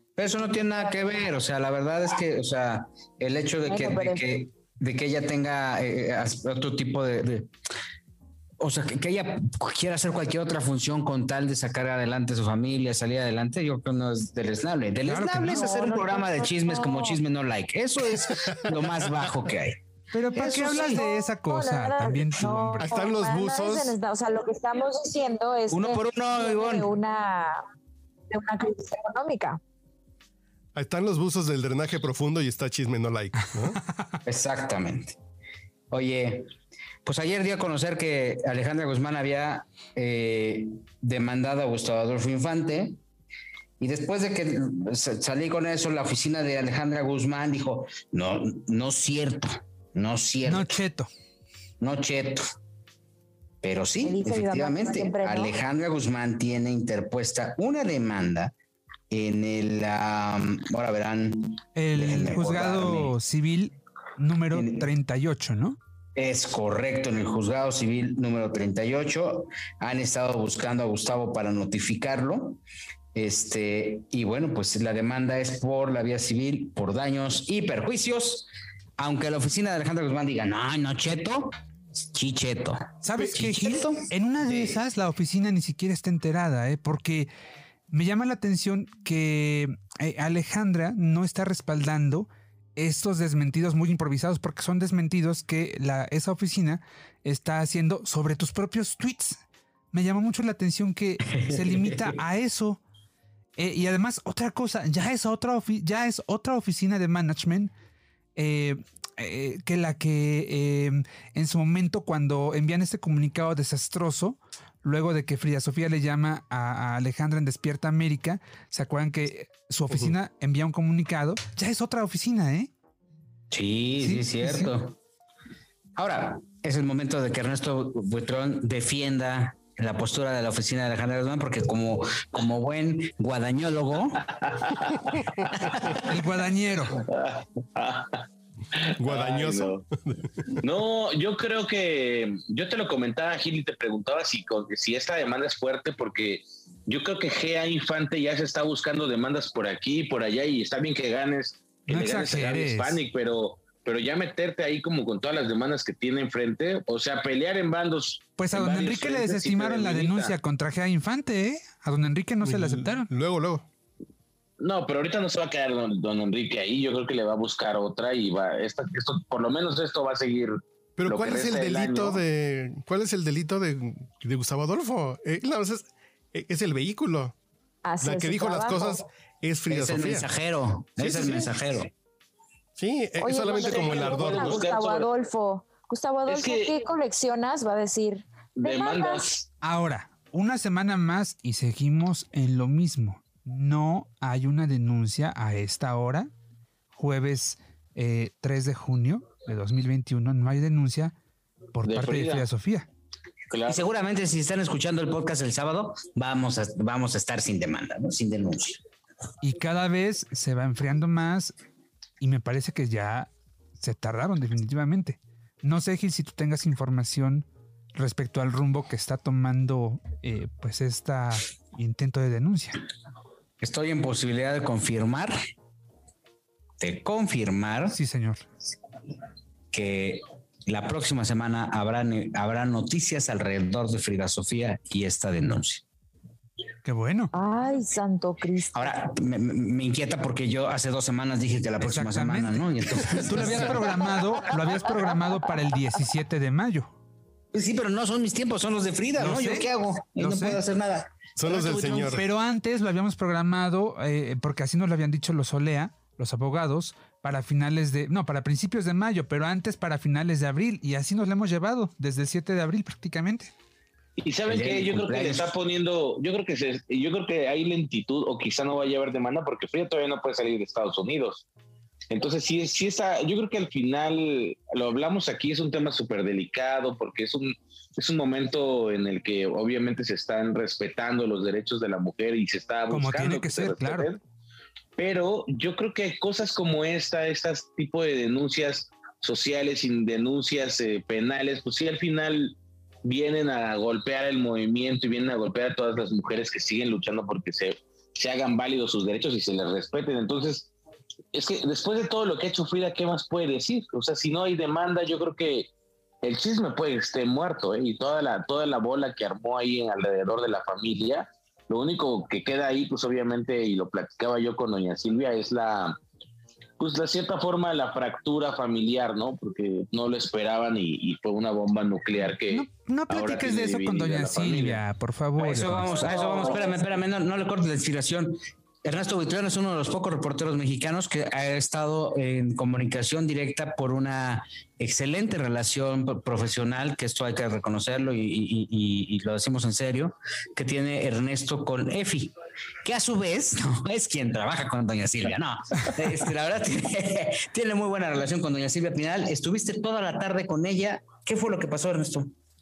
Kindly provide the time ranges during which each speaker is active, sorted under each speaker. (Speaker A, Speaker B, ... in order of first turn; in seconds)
Speaker A: 0.2-7.5, 8.6-19.8, 20.3-21.0, 25.7-26.9, 34.2-35.2, 35.9-36.5, 37.0-43.0, 43.8-50.8, 51.8-52.4, 53.6-58.5, 59.1-63.1, 64.5-64.9, 66.1-72.6, 73.1-84.8, 101.3-102.1, 123.5-125.0, 126.0-134.3, 135.4-136.0, 179.7-181.9, 203.7-208.8, 223.6-225.3, 226.8-228.0, 229.7-235.8, 238.7-244.2, 247.5-252.2, 264.5-265.5, 325.4-342.3, 342.8-352.3
Speaker B: 3.6-4.2, 15.4-17.2, 20.3-27.6, 28.3-29.6, 54.0-55.5, 177.8-179.0, 183.2-189.3, 237.3-238.9, 325.9-326.9
Speaker C: 15.0-15.7, 20.1-22.9, 33.9-34.1, 50.5-51.1, 61.8-65.8, 83.0-87.3, 87.9-102.8, 103.6-107.7, 108.3-122.7, 124.0-124.7, 135.9-137.0, 151.9-153.0, 158.4-163.1, 189.6-196.3, 196.9-201.1, 201.7-202.9, 209.4-211.5, 212.2-222.8, 227.9-228.4, 236.8-237.3, 241.8-246.9, 249.2-250.6, 251.7-263.5, 282.9-284.1, 322.5-325.9
Speaker D: 22.8-23.9, 30.7-33.8, 139.0-140.6, 162.4-163.6, 171.0-177.3, 178.0-180.3, 181.0-181.5, 182.8-184.6, 251.4-252.2
Speaker E: 134.2-136.1, 137.0-138.2, 138.8-139.8, 140.6-160.3, 164.6-172.2, 183.6-185.1, 186.3-186.7, 188.6-189.5, 201.8-202.4, 203.5-203.8, 264.2-271.4, 272.1-284.2, 285.0-300.7, 301.3-305.7, 306.2-316.0, 316.8-324.8